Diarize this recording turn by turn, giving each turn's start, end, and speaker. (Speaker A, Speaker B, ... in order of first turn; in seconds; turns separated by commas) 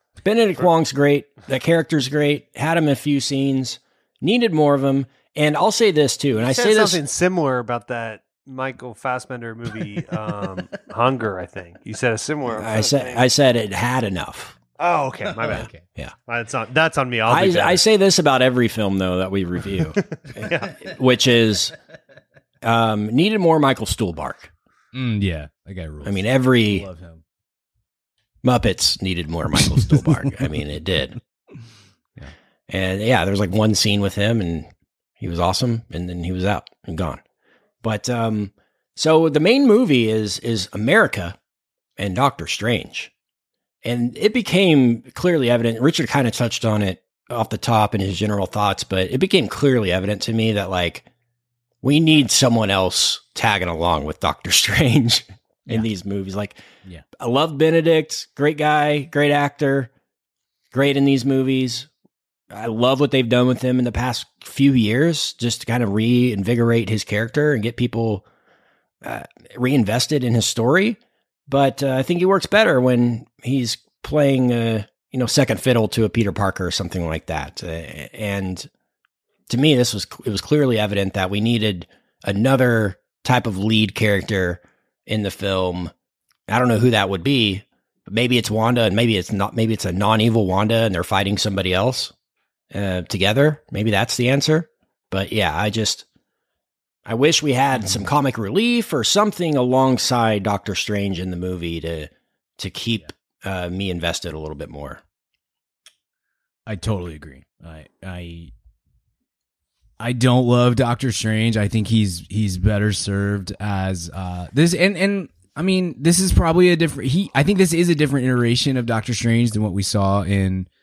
Speaker A: 0.2-7.0, Speaker B: 6.4-13.2, Speaker A: 12.5-14.6, Speaker B: 14.8-15.7, Speaker C: 15.4-15.8, Speaker A: 15.5-16.1, Speaker B: 16.3-17.8, Speaker A: 17.3-21.7, Speaker B: 20.3-20.8, Speaker A: 22.6-24.5, Speaker C: 24.9-27.2, Speaker A: 26.0-26.9, Speaker A: 28.4-31.2, Speaker A: 32.7-37.2, Speaker A: 37.8-41.4, Speaker A: 42.0-43.1, Speaker A: 43.8-51.0, Speaker A: 51.8-56.6, Speaker A: 57.1-59.9, Speaker A: 60.7-61.9, Speaker A: 62.5-68.2, Speaker A: 69.0-78.7, Speaker A: 79.5-85.9, Speaker A: 86.5-92.1, Speaker A: 92.7-96.0, Speaker A: 97.0-105.0, Speaker C: 97.8-98.0, Speaker C: 106.7-108.5, Speaker C: 110.0-120.7